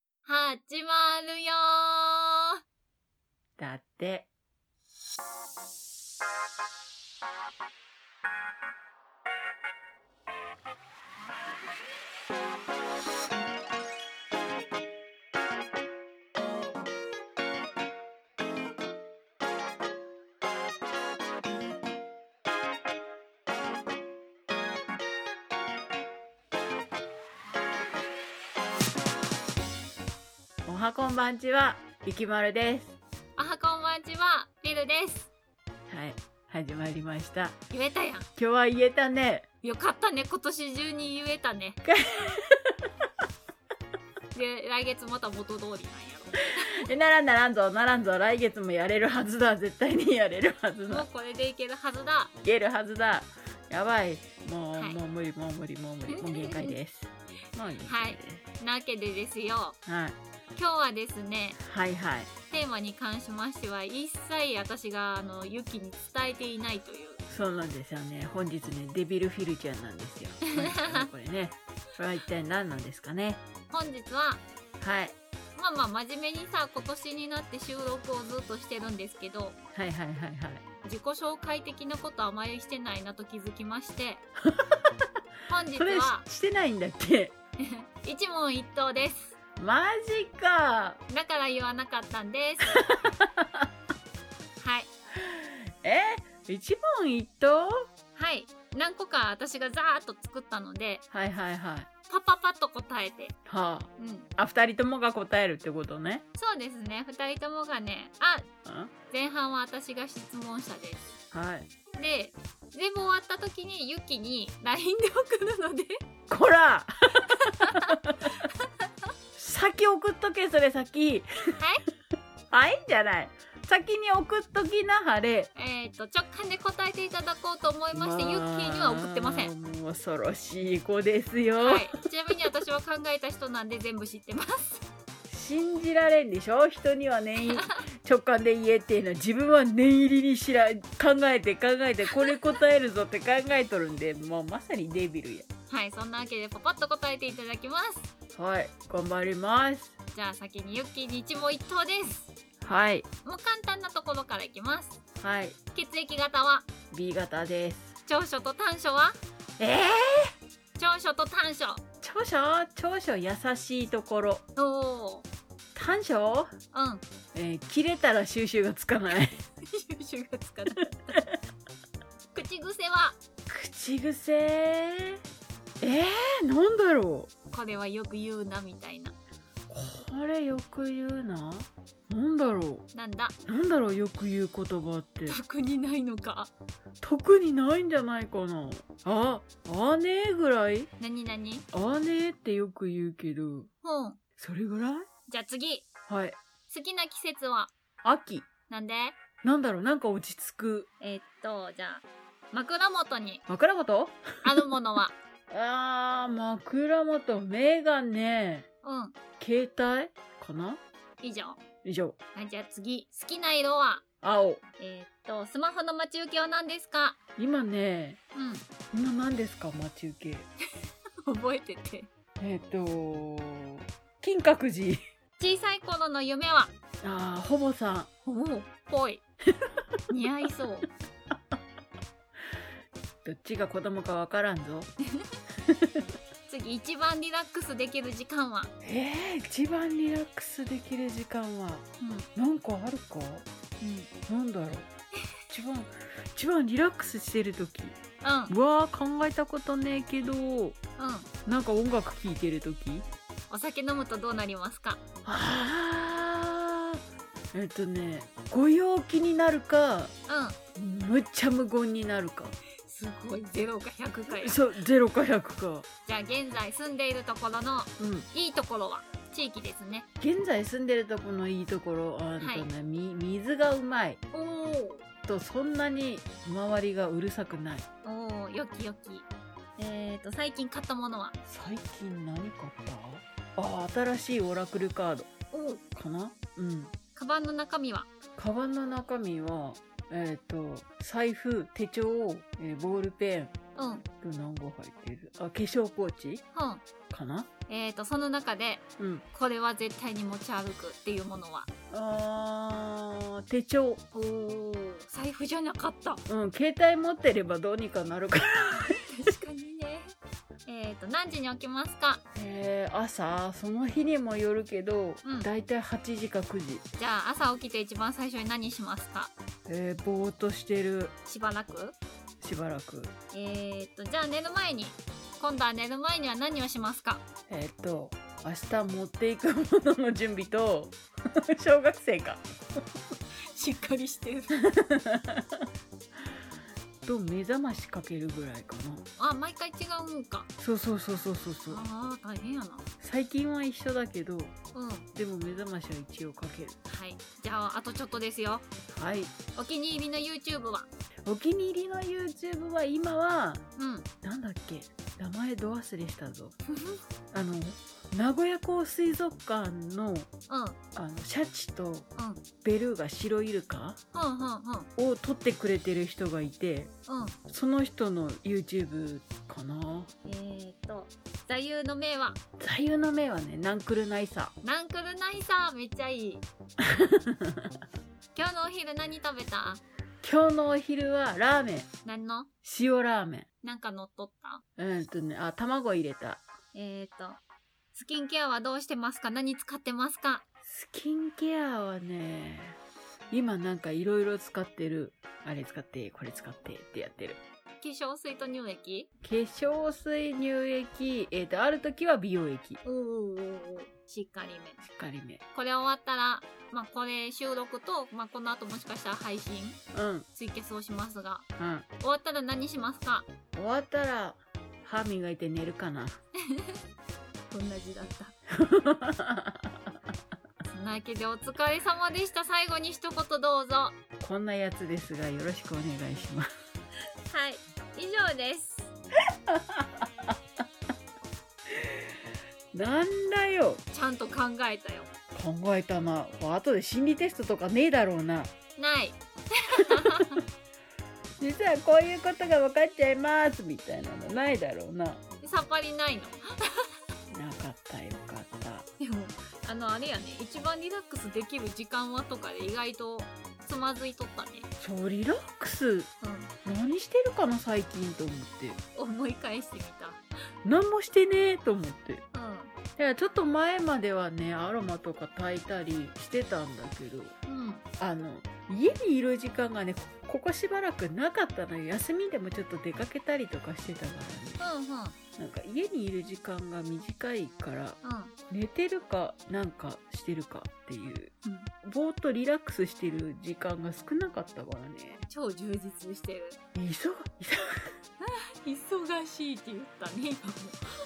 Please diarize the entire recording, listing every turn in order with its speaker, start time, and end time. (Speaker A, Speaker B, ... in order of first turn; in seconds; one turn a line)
Speaker A: 0.2-2.5
Speaker B: 3.6-4.3
Speaker B: 30.7-33.0
Speaker A: 33.4-35.3
Speaker B: 35.9-37.6
Speaker A: 37.7-38.3
Speaker B: 38.4-39.5
Speaker A: 39.6-41.8
Speaker B: 41.8-42.7
Speaker A: 44.3-46.8
Speaker B: 46.6-51.1
Speaker A: 50.9-52.3
Speaker B: 52.4-58.4
Speaker A: 56.1-56.8
Speaker A: 57.9-59.8
Speaker B: 59.9-60.2
Speaker A: 60.5-61.6
Speaker B: 61.6-62.3
Speaker A: 62.5-67.2
Speaker B: 67.3-73.4
Speaker A: 70.6-71.1
Speaker A: 73.7-74.4
Speaker B: 74.8-75.2
Speaker A: 75.6-79.6
Speaker B: 79.7-80.6
Speaker A: 80.8-84.2
Speaker B: 84.4-84.9
Speaker A: 85.5-86.2
Speaker B: 85.7-87.3
Speaker A: 87.6-89.3
Speaker B: 89.6-91.0
Speaker A: 91.1-92.8
Speaker B: 92.7-93.7
Speaker A: 94.6-94.9
Speaker B: 95.2-97.9
Speaker A: 98.2-101.0
Speaker B: 101.1-101.9
Speaker A: 102.1-103.3
Speaker B: 103.5-106.2
Speaker A: 104.0-104.3
Speaker A: 106.4-108.5
Speaker B: 108.6-108.9
Speaker A: 109.1-111.1
Speaker B: 111.3-111.7
Speaker A: 112.0-116.0
Speaker B: 116.3-118.5
Speaker A: 117.3-118.0
Speaker A: 118.5-118.9
Speaker B: 119.4-121.6
Speaker B: 122.5-125.5
Speaker A: 125.5-129.5
Speaker B: 127.9-132.0
Speaker A: 131.6-134.8
Speaker B: 135.3-145.5
Speaker A: 137.4-137.8
Speaker A: 145.7-148.1
Speaker B: 148.3-149.9
Speaker A: 150.1-152.3
Speaker B: 152.6-153.1
Speaker A: 153.2-155.0
Speaker B: 155.2-155.6
Speaker A: 155.8-156.7
Speaker B: 156.9-158.0
Speaker A: 158.1-159.2
Speaker B: 159.6-160.3
Speaker A: 160.8-161.8
Speaker B: 162.0-164.4
Speaker A: 164.6-165.3
Speaker B: 165.8-166.5
Speaker A: 166.7-167.0
Speaker B: 167.3-169.4
Speaker A: 169.6-171.2
Speaker B: 170.8-171.4
Speaker A: 172.3-173.2
Speaker B: 173.5-175.2
Speaker B: 175.8-177.3
Speaker A: 177.5-179.2
Speaker B: 179.7-182.8
Speaker A: 182.9-183.3
Speaker B: 183.5-185.4
Speaker A: 185.3-186.5
Speaker B: 187.0-190.9
Speaker A: 191.0-191.7
Speaker B: 191.7-193.7
Speaker A: 193.8-194.2
Speaker B: 194.4-195.1
Speaker A: 195.3-195.9
Speaker B: 196.1-196.4
Speaker A: 196.7-197.7
Speaker B: 198.0-198.5
Speaker A: 198.7-199.2
Speaker B: 199.4-200.9
Speaker A: 201.0-203.4
Speaker B: 203.5-204.8
Speaker A: 204.4-205.2
Speaker B: 205.5-208.7
Speaker A: 208.8-209.2
Speaker B: 209.4-210.8
Speaker A: 211.2-211.6
Speaker B: 211.8-212.2
Speaker A: 212.3-214.0
Speaker B: 214.2-214.6
Speaker A: 214.8-217.2
Speaker B: 217.4-218.2
Speaker A: 218.3-218.7
Speaker B: 218.9-220.5
Speaker A: 221.2-222.1
Speaker B: 222.4-225.0
Speaker A: 225.4-226.7
Speaker B: 227.0-228.1
Speaker A: 228.2-229.2
Speaker A: 230.1-230.9
Speaker B: 233.2-234.9
Speaker B: 235.7-236.0
Speaker A: 236.5-238.7
Speaker B: 238.8-243.5
Speaker A: 242.0-242.3
Speaker A: 243.8-244.1
Speaker B: 244.3-244.9
Speaker B: 245.5-248.0
Speaker A: 248.2-248.5
Speaker B: 248.5-250.8
Speaker A: 251.0-251.3
Speaker B: 251.5-253.1
Speaker A: 253.5-255.0
Speaker B: 255.2-257.0
Speaker B: 257.5-260.1
Speaker A: 260.3-260.6
Speaker B: 260.8-262.5
Speaker A: 262.9-264.6
Speaker B: 264.3-265.9
Speaker A: 266.1-270.1
Speaker B: 268.0-268.3
Speaker B: 270.2-274.2
Speaker A: 272.4-272.7
Speaker A: 274.3-275.1
Speaker B: 275.2-277.9
Speaker A: 278.0-281.4
Speaker B: 281.5-285.3
Speaker A: 285.5-285.8
Speaker B: 285.9-286.9
Speaker A: 287.1-288.1
Speaker B: 288.4-293.6
Speaker A: 293.8-294.1
Speaker B: 294.1-296.4
Speaker A: 296.5-296.8
Speaker B: 297.1-297.5
Speaker A: 297.7-301.7
Speaker B: 299.0-299.2
Speaker B: 301.9-304.0
Speaker A: 304.1-306.2
Speaker B: 306.3-308.9
Speaker A: 308.7-310.1
Speaker A: 310.6-312.2
Speaker B: 312.3-316.8
Speaker A: 315.2-315.5
Speaker A: 317.0-319.3
Speaker B: 319.6-321.1
Speaker A: 321.2-321.9
Speaker B: 322.4-323.1
Speaker A: 323.3-327.2
Speaker B: 327.5-332.8
Speaker A: 333.5-334.5
Speaker B: 334.5-335.6
Speaker B: 337.0-339.1
Speaker A: 339.2-340.5
Speaker B: 340.6-341.8
Speaker A: 341.7-342.9
Speaker B: 343.0-344.5
Speaker A: 344.7-345.1
Speaker B: 345.1-346.8
Speaker A: 346.9-348.7
Speaker B: 348.9-349.3
Speaker A: 349.6-350.9
Speaker B: 351.2-353.6
Speaker A: 353.8-354.1
Speaker B: 354.2-356.6
Speaker A: 356.7-357.0
Speaker B: 357.3-360.3
Speaker A: 360.5-360.8
Speaker B: 360.9-362.1
Speaker A: 362.2-362.4
Speaker B: 362.6-364.0
Speaker A: 364.1-364.9
Speaker B: 364.9-366.9
Speaker A: 367.1-367.4
Speaker B: 367.5-370.1
Speaker A: 370.2-372.4
Speaker B: 372.6-374.5
Speaker A: 374.6-376.4
Speaker B: 376.8-377.7
Speaker A: 378.4-379.8
Speaker B: 380.2-381.9
Speaker A: 382.1-382.5
Speaker B: 382.6-383.5
Speaker A: 383.6-384.6
Speaker B: 384.8-386.4
Speaker A: 386.7-387.4
Speaker A: 387.9-390.4
Speaker B: 390.6-392.8
Speaker B: 393.3-397.4
Speaker A: 397.8-399.1
Speaker B: 399.2-402.8
Speaker A: 402.8-404.8
Speaker B: 404.8-405.4
Speaker A: 405.6-409.8
Speaker B: 409.9-410.3
Speaker A: 410.4-411.4
Speaker B: 411.6-411.9
Speaker A: 412.0-413.3
Speaker B: 413.5-416.2
Speaker A: 416.4-416.8
Speaker A: 417.5-418.4
Speaker B: 418.5-419.8
Speaker A: 420.6-423.9
Speaker B: 424.2-426.5
Speaker A: 427.2-428.9
Speaker B: 429.5-430.4
Speaker B: 431.7-432.1
Speaker B: 432.7-433.8
Speaker A: 433.9-435.1
Speaker B: 435.3-438.5
Speaker A: 438.8-440.4
Speaker B: 439.8-440.4
Speaker B: 441.4-445.2
Speaker A: 445.4-446.9
Speaker B: 447.3-448.9
Speaker A: 449.0-454.7
Speaker B: 454.8-456.1
Speaker A: 456.2-456.5
Speaker B: 456.6-458.8
Speaker A: 458.9-460.2
Speaker B: 460.6-462.2
Speaker A: 462.3-462.7
Speaker B: 463.0-467.4
Speaker A: 467.4-467.8
Speaker B: 468.0-474.7
Speaker A: 474.6-475.2
Speaker B: 475.4-478.0
Speaker A: 478.0-478.4
Speaker B: 478.5-485.2
Speaker A: 481.4-481.7
Speaker A: 485.3-486.6
Speaker B: 486.7-487.8
Speaker A: 488.2-490.9